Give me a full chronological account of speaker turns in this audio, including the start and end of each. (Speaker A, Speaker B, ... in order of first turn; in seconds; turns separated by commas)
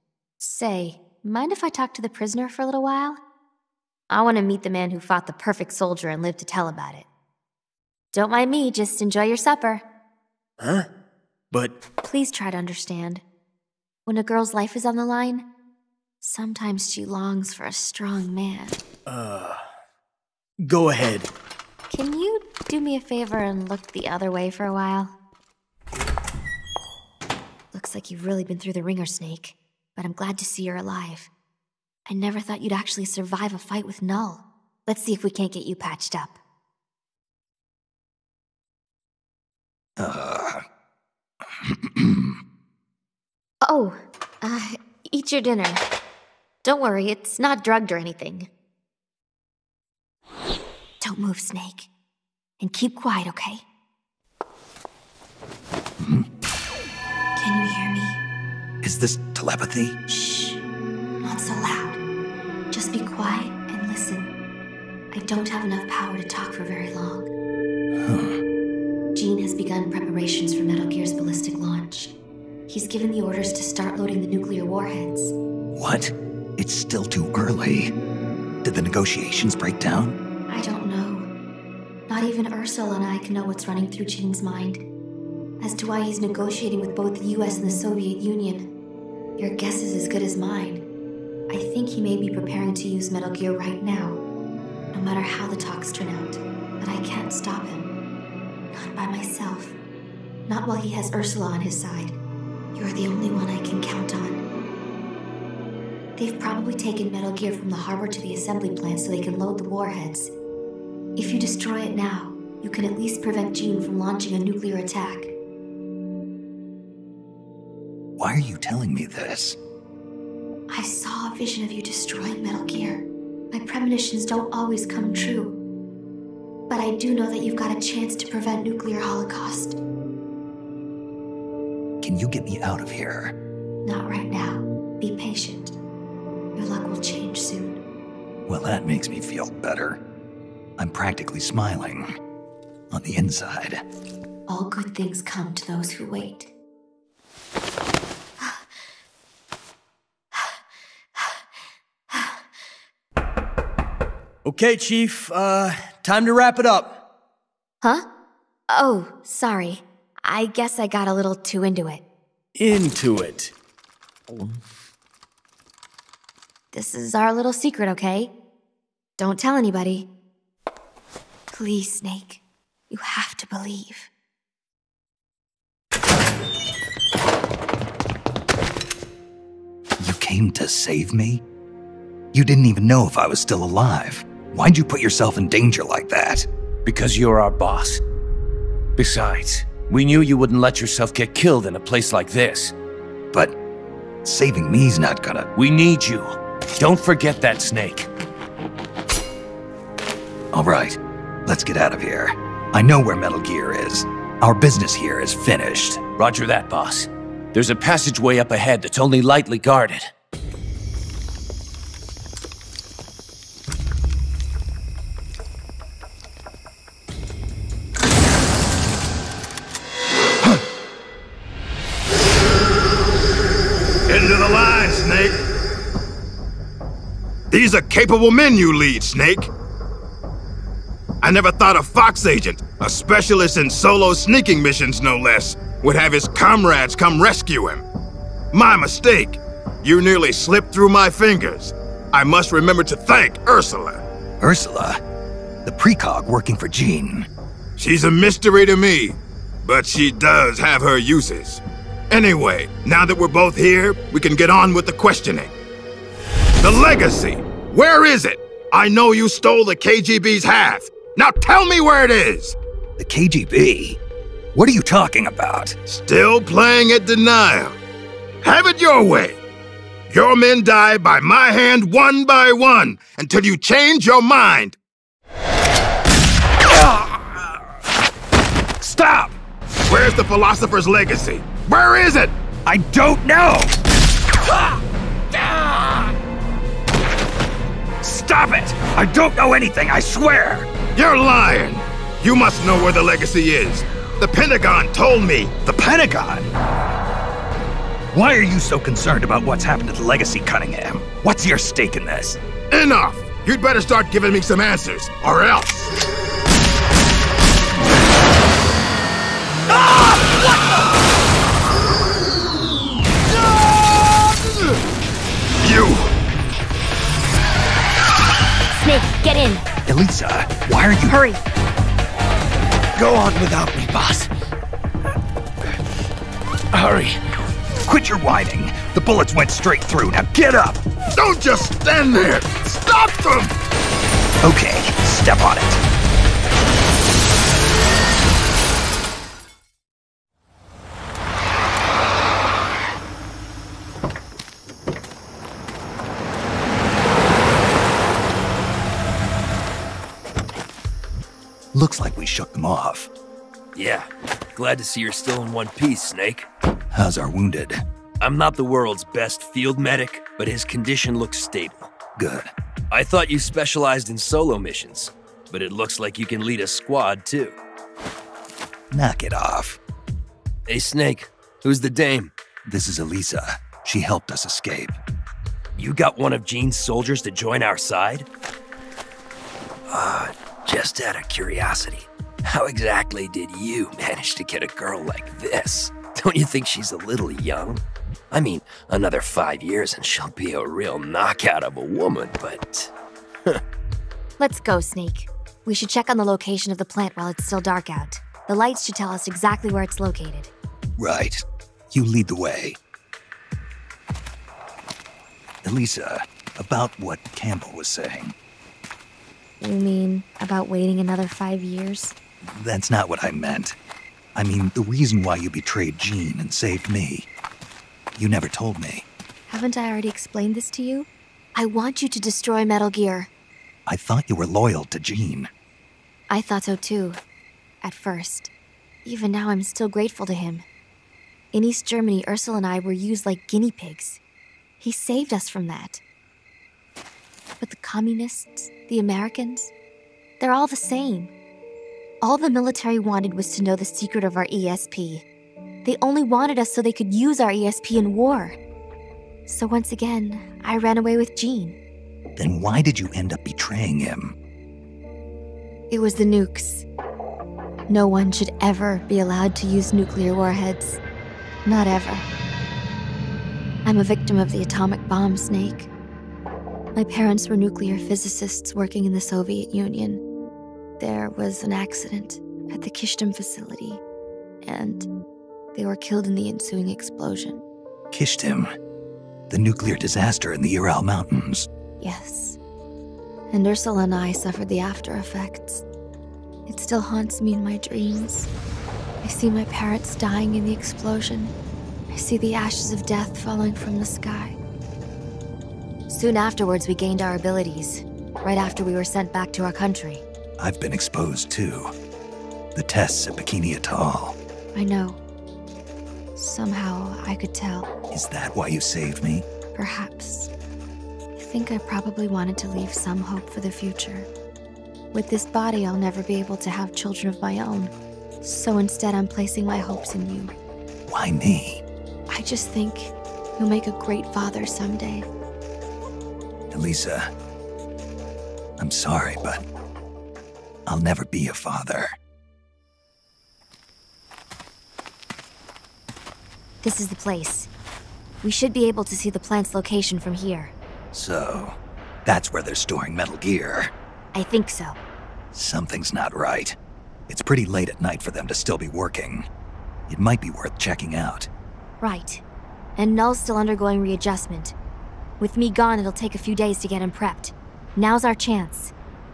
Speaker A: 0.4-3.2, Speaker A: 4.1-7.1, Speaker A: 8.1-9.8, Speaker B: 10.6-10.9, Speaker B: 11.5-11.8, Speaker A: 12.0-13.2, Speaker A: 14.1-15.5, Speaker A: 16.2-18.8, Speaker B: 19.1-19.6, Speaker B: 20.6-21.3, Speaker A: 21.9-25.1, Speaker A: 27.7-31.3, Speaker A: 32.0-36.4, Speaker C: 40.0-40.6, Speaker C: 41.6-42.4, Speaker A: 43.6-45.8, Speaker A: 46.6-48.5, Speaker A: 51.0-51.9, Speaker A: 52.6-53.6, Speaker C: 56.0-56.3, Speaker A: 57.3-58.2, Speaker C: 58.8-60.0, Speaker A: 60.1-60.6, Speaker A: 61.2-62.0, Speaker A: 62.7-64.3, Speaker A: 65.1-67.3, Speaker C: 68.0-68.4, Speaker A: 69.1-72.2, Speaker A: 72.7-75.3, Speaker C: 75.7-77.9, Speaker C: 78.6-80.2, Speaker A: 80.5-81.3, Speaker A: 82.1-84.8, Speaker A: 85.6-88.7, Speaker A: 89.4-90.8, Speaker A: 91.5-94.2, Speaker A: 94.9-97.9, Speaker A: 98.7-99.8, Speaker A: 100.5-102.2, Speaker A: 102.7-104.4, Speaker A: 106.2-110.3, Speaker A: 111.2-115.3, Speaker C: 118.2-119.6, Speaker A: 120.7-125.5, Speaker A: 126.7-129.8, Speaker C: 132.0-133.3, Speaker A: 133.8-135.7, Speaker A: 136.5-137.8, Speaker C: 138.5-140.0, Speaker C: 140.8-142.1, Speaker C: 142.9-143.8, Speaker A: 144.5-146.5, Speaker A: 152.1-152.4, Speaker B: 154.4-157.0, Speaker A: 158.7-162.0, Speaker B: 162.6-163.5, Speaker A: 166.7-168.3, Speaker A: 169.2-170.1, Speaker A: 171.5-174.1, Speaker C: 180.0-181.4, Speaker C: 182.3-186.5, Speaker D: 186.8-188.0, Speaker D: 189.0-192.7, Speaker C: 193.3-193.6, Speaker C: 194.2-195.5, Speaker D: 195.5-198.1, Speaker C: 200.5-206.0, Speaker D: 206.2-210.1, Speaker E: 224.1-225.4, Speaker E: 227.5-229.5, Speaker E: 231.2-237.8, Speaker E: 238.5-244.0, Speaker C: 244.4-245.0, Speaker C: 245.6-247.3, Speaker E: 247.8-255.5, Speaker E: 256.6-262.6, Speaker C: 263.0-264.0, Speaker C: 264.5-265.8, Speaker E: 265.9-267.8, Speaker E: 268.4-269.4, Speaker E: 270.1-274.8, Speaker C: 278.8-279.3, Speaker E: 279.9-282.3, Speaker C: 282.6-283.7, Speaker C: 285.4-286.0, Speaker C: 288.0-290.7, Speaker E: 290.9-295.5, Speaker C: 295.6-296.5, Speaker C: 298.1-302.4, Speaker E: 302.7-305.9, Speaker E: 309.7-310.6, Speaker E: 313.3-314.8, Speaker E: 315.6-316.1, Speaker A: 318.7-319.6, Speaker C: 319.9-321.2, Speaker A: 321.1-321.4, Speaker D: 323.0-324.2, Speaker D: 326.7-327.1, Speaker C: 327.8-330.8, Speaker E: 331.1-333.5, Speaker C: 334.4-335.8, Speaker C: 351.7-353.1, Speaker F: 353.7-356.5, Speaker C: 356.9-357.8, Speaker F: 358.2-361.9, Speaker C: 362.2-362.5, Speaker F: 362.9-367.6, Speaker C: 368.9-369.8, Speaker F: 370.7-372.3, Speaker C: 372.6-375.0, Speaker F: 375.8-378.3, Speaker F: 379.9-392.9, Speaker A: 394.4-400.5, Speaker C: 401.0-402.8, Speaker C: 405.6-408.3, Speaker A: 409.6-412.1, Speaker C: 412.4-413.8, Speaker C: 414.3-417.3, Speaker C: 418.1-419.1, Speaker A: 419.5-423.3, Speaker C: 423.9-425.5, Speaker A: 426.3-427.2, Speaker A: 427.8-428.5, Speaker A: 429.0-430.6, Speaker A: 431.5-434.2, Speaker A: 434.8-436.0, Speaker A: 437.6-439.7, Speaker A: 440.4-441.3, Speaker A: 442.2-445.2, Speaker A: 445.8-448.6, Speaker A: 449.5-451.8, Speaker C: 452.4-454.4, Speaker A: 455.9-456.8, Speaker A: 457.9-461.0, Speaker A: 461.6-462.3, Speaker A: 463.8-465.9, Speaker A: 466.9-470.2, Speaker A: 471.0-474.0, Speaker A: 474.6-475.1, Speaker A: 475.7-477.6, Speaker C: 478.1-478.7, Speaker C: 479.5-481.7, Speaker A: 482.0-482.6, Speaker A: 483.5-485.8, Speaker A: 486.7-488.5, Speaker A: 489.2-491.5, Speaker A: 492.1-494.6, Speaker A: 496.1-500.2, Speaker C: 500.6-501.9, Speaker C: 502.7-504.4, Speaker A: 504.7-505.2, Speaker A: 506.4-507.9, Speaker C: 508.1-509.5, Speaker A: 509.7-510.5, Speaker A: 511.4-514.3, Speaker A: 515.1-520.5, Speaker C: 521.1-521.8, Speaker A: 522.3-525.3, Speaker C: 526.7-527.3, Speaker C: 528.8-529.6, Speaker C: 530.9-532.1, Speaker A: 536.8-537.7, Speaker A: 538.4-540.7, Speaker C: 541.1-543.9, Speaker A: 544.3-545.0, Speaker C: 545.5-546.8, Speaker C: 547.3-549.5, Speaker C: 550.1-551.5, Speaker A: 552.0-552.4, Speaker A: 553.0-554.8, Speaker A: 555.4-558.9